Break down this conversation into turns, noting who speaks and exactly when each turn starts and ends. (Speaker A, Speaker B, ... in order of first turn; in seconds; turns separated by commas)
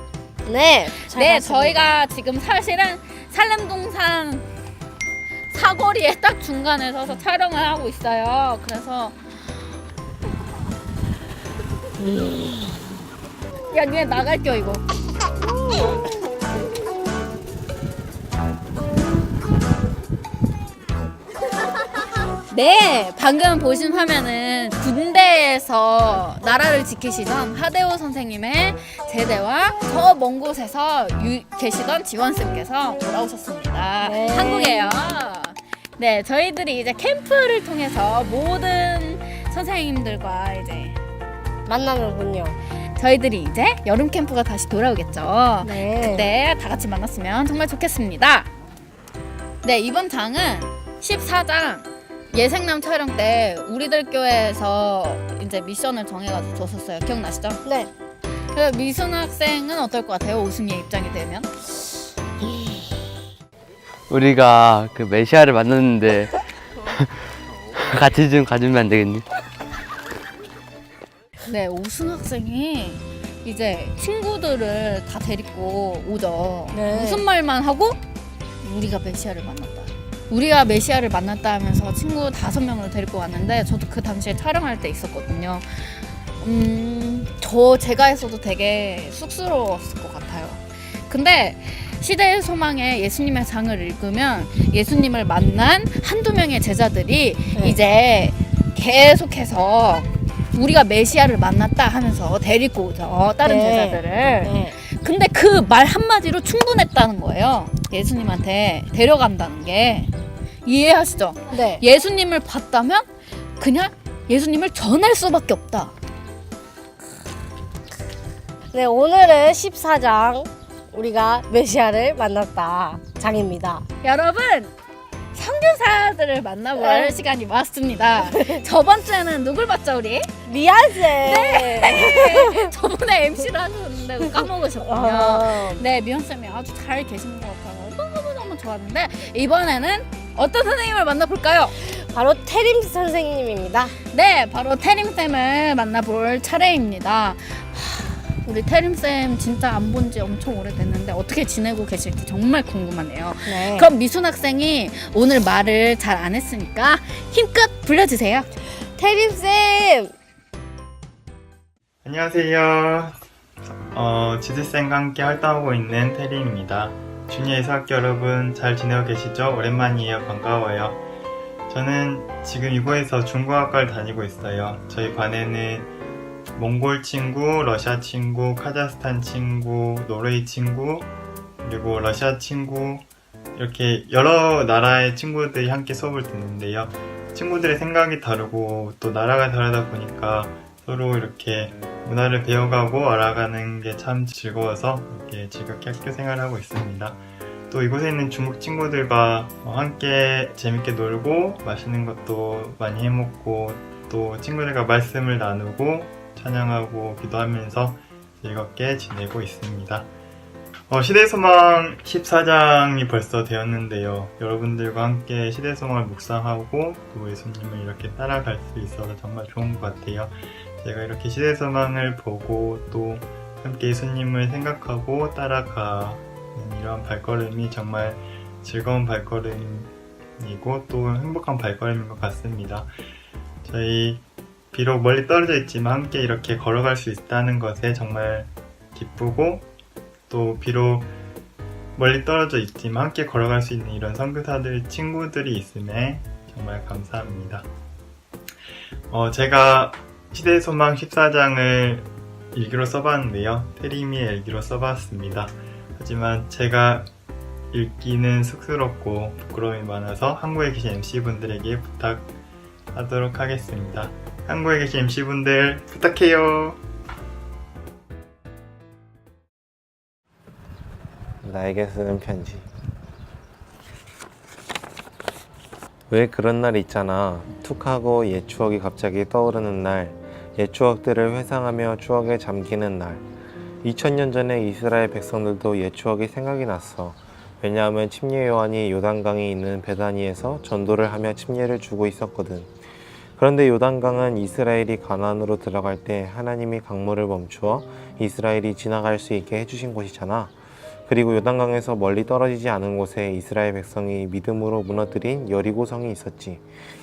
Speaker A: 0.5-1.9, Speaker B: 1.0-4.5, Speaker B: 5.5-9.2, Speaker A: 12.0-12.8, Speaker B: 13.7-14.8, Speaker B: 22.5-41.0, Speaker A: 34.0-35.0, Speaker A: 41.7-42.6, Speaker B: 42.9-48.5, Speaker A: 45.6-46.3, Speaker B: 49.6-57.6, Speaker A: 57.6-57.9, Speaker B: 58.5-61.5, Speaker C: 64.1-66.3, Speaker C: 67.8-69.2, Speaker B: 71.4-78.0, Speaker A: 76.7-77.2, Speaker B: 78.6-110.1, Speaker A: 103.4-104.8, Speaker B: 110.6-115.9, Speaker A: 111.5-111.8, Speaker A: 118.7-123.8, Speaker B: 124.0-124.7, Speaker B: 125.3-130.3, Speaker A: 126.8-127.2, Speaker A: 128.2-128.6, Speaker A: 130.4-132.7, Speaker B: 131.2-141.8, Speaker A: 134.8-135.8, Speaker A: 141.8-143.9, Speaker B: 144.1-158.5, Speaker A: 153.4-153.9, Speaker A: 158.9-160.1, Speaker D: 162.0-163.2, Speaker D: 163.9-171.0, Speaker D: 171.7-175.9, Speaker D: 176.6-181.1, Speaker D: 181.6-210.1, Speaker D: 210.9-232.9, Speaker D: 233.6-239.7, Speaker D: 240.3-241.1, Speaker D: 241.9-247.7, Speaker D: 249.1-257.1, Speaker D: 257.7-262.3, Speaker D: 262.9-266.8, Speaker E: 271.4-272.7, Speaker E: 276.1-283.2, Speaker E: 283.8-292.7, Speaker E: 293.4-300.5, Speaker E: 301.1-306.6